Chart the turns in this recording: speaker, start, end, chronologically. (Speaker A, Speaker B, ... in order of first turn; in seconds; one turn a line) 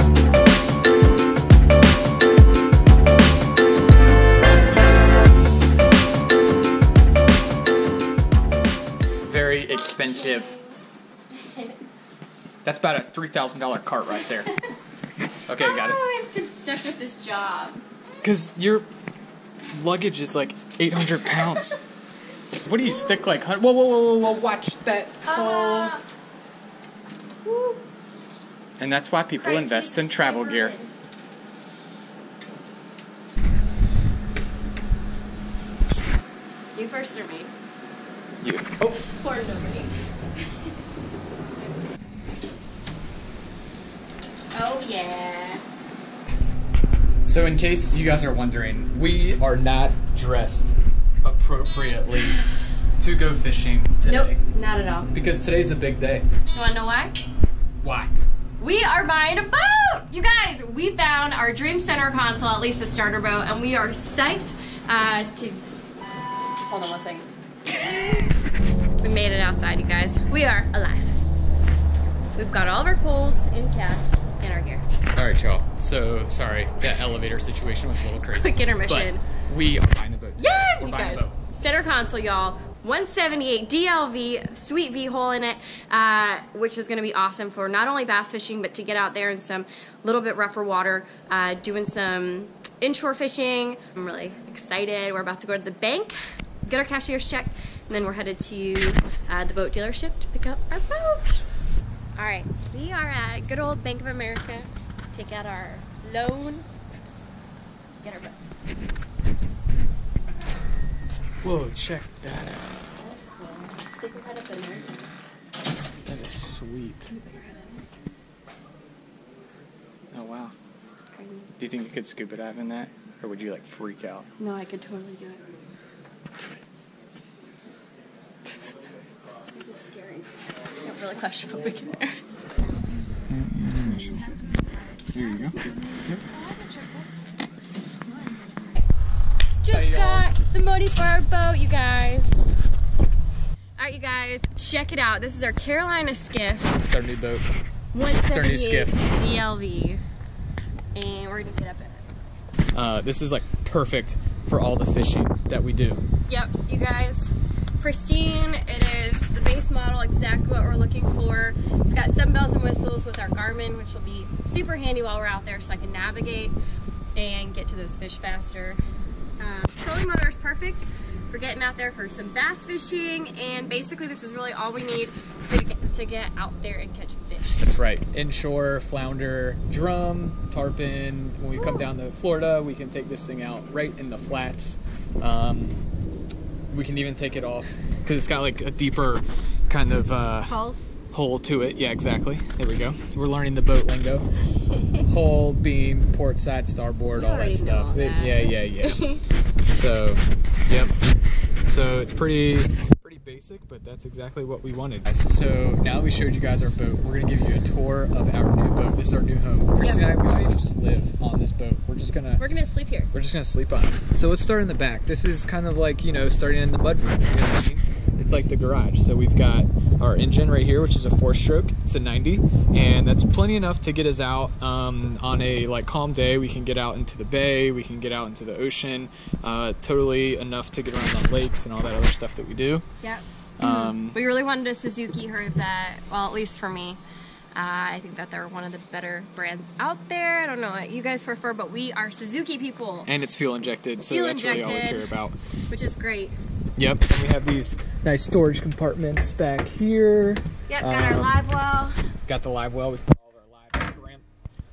Speaker A: 9.3-10.5
Speaker B: 9.7-10.8
Speaker B: 11.4-11.8
Speaker A: 12.6-14.5
Speaker A: 15.5-16.0
Speaker B: 15.6-17.8
Speaker A: 18.2-18.9
Speaker A: 19.7-21.8
Speaker A: 22.6-26.0
Speaker B: 25.2-26.1
Speaker B: 27.4-27.8
Speaker A: 28.8-30.8
Speaker B: 29.4-30.9
Speaker B: 36.8-37.5
Speaker A: 38.4-39.0
Speaker B: 39.0-39.9
Speaker B: 44.5-45.6
Speaker A: 47.3-52.4
Speaker A: 53.0-54.4
Speaker B: 54.0-55.1
Speaker A: 55.1-56.3
Speaker B: 56.5-57.2
Speaker A: 57.8-58.1
Speaker B: 58.6-65.7
Speaker B: 66.7-68.3
Speaker B: 69.0-71.2
Speaker B: 72.3-74.8
Speaker A: 75.1-81.4
Speaker B: 78.3-79.2
Speaker B: 80.4-101.4
Speaker B: 102.2-106.7
Speaker B: 108.0-108.4
Speaker A: 111.4-112.7
Speaker B: 113.0-115.0
Speaker A: 116.0-117.1
Speaker B: 117.1-117.8
Speaker A: 120.1-120.5
Speaker B: 121.1-121.5
Speaker A: 121.6-124.3
Speaker B: 124.4-125.4
Speaker B: 129.5-130.3
Speaker B: 130.8-132.2
Speaker A: 133.3-134.4
Speaker A: 135.1-136.2
Speaker B: 139.6-142.4
Speaker A: 139.7-140.3
Speaker B: 143.8-146.8
Speaker A: 146.8-147.5
Speaker B: 147.9-150.0
Speaker A: 148.3-149.0
Speaker B: 150.9-152.1
Speaker A: 152.8-156.0
Speaker B: 156.3-166.6
Speaker B: 167.2-168.8
Speaker B: 169.4-177.6
Speaker A: 177.6-185.8
Speaker B: 181.6-181.8
Speaker A: 186.7-190.6
Speaker B: 190.5-190.8
Speaker A: 191.1-194.3
Speaker A: 195.0-199.0
Speaker B: 197.2-199.2
Speaker A: 199.7-200.9
Speaker A: 201.7-212.4
Speaker B: 209.8-210.6
Speaker B: 212.4-213.1
Speaker A: 213.1-232.8
Speaker B: 233.0-237.0
Speaker A: 233.6-234.2
Speaker B: 237.6-243.1
Speaker A: 243.1-245.4
Speaker B: 244.0-245.1
Speaker B: 245.7-246.4
Speaker A: 246.8-251.3
Speaker B: 250.7-252.0
Speaker A: 252.3-254.2